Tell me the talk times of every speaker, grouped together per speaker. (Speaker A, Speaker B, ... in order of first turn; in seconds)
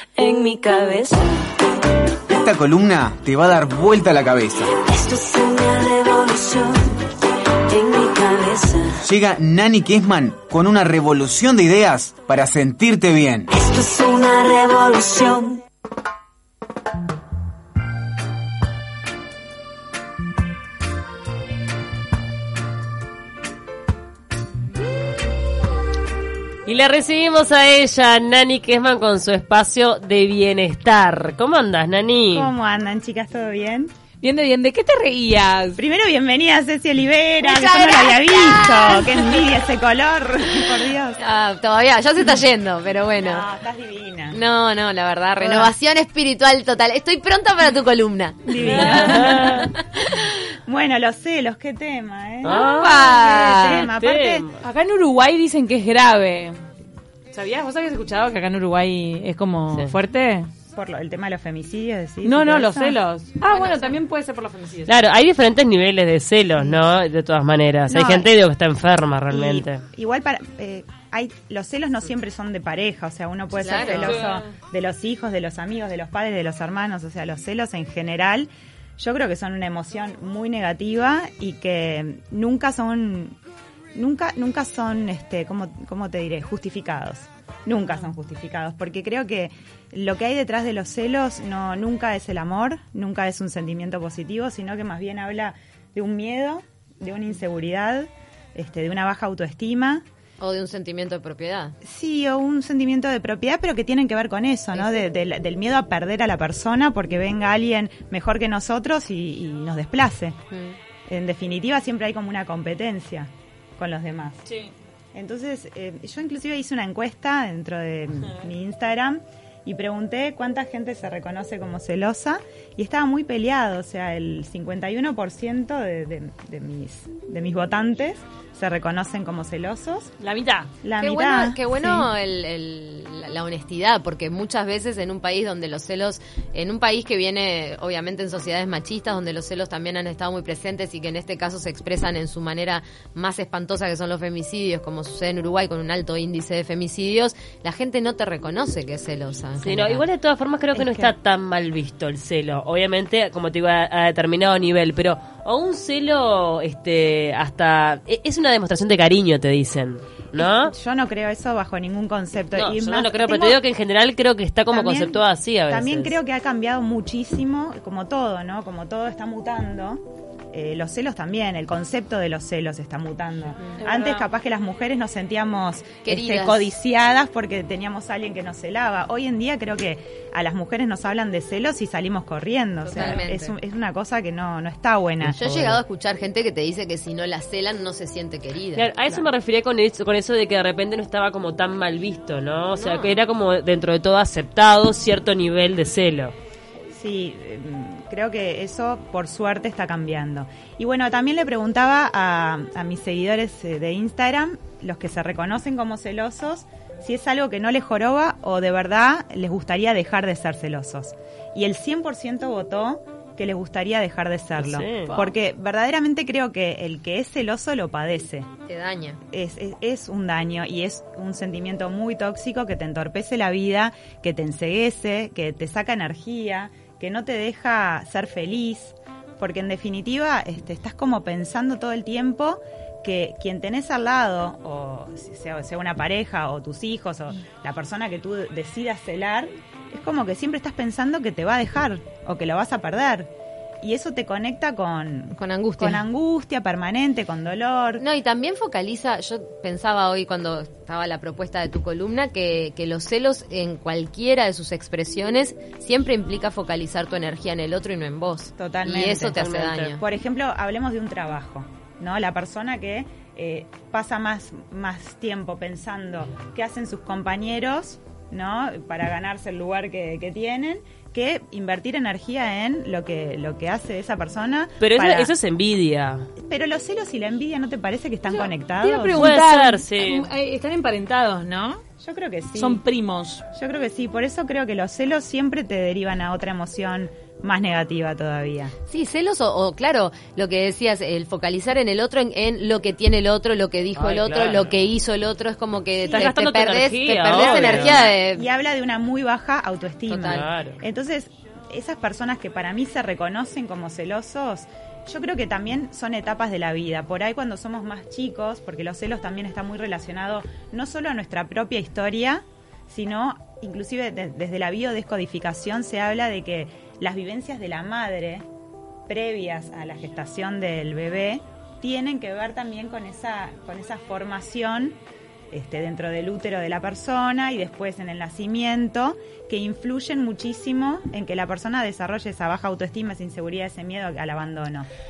Speaker A: 0.2-1.5, 4.7-7.0, 7.7-9.0, 13.5-15.6
Speaker B: 2.3-4.7, 9.0-13.5
Speaker C: 26.7-32.5, 48.6-49.7, 52.4-54.6, 64.9-69.8, 149.6-160.7, 162.6-166.1, 188.8-196.3, 214.6-215.2, 259.3-260.0, 274.8-276.3, 279.2-280.3, 294.0-294.8, 296.0-298.1, 300.3-300.8
Speaker D: 32.3-33.9, 35.8-41.2, 43.1-44.4, 45.4-45.7, 48.5-49.4, 50.7-54.4, 60.7-63.0, 63.5-64.0, 67.9-68.3, 69.3-83.4, 84.0-100.0, 101.8-110.4, 111.1-114.4, 115.2-130.1, 130.8-132.1, 150.7-151.1, 160.4-163.6, 164.7-185.8, 196.9-218.5, 219.3-243.3, 243.8-248.0, 258.6-275.3, 276.4-279.3, 282.0-282.8, 283.5-288.7, 297.3-318.5, 319.1-325.0, 325.5-334.9
Speaker E: 34.2-35.8, 52.4-53.9, 54.6-56.6, 57.3-60.5, 62.2-64.9, 73.9-74.3, 130.2-130.7, 173.8-174.3, 278.3-281.8, 282.6-283.4
Speaker F: 37.4-39.5, 41.2-43.5, 44.3-49.7, 73.6-74.2, 100.4-101.8, 110.5-110.8, 131.0-150.1, 176.0-176.8, 182.8-183.6, 185.3-188.9, 218.7-219.2, 245.4-246.0, 248.0-260.0, 288.9-298.5, 300.1-300.4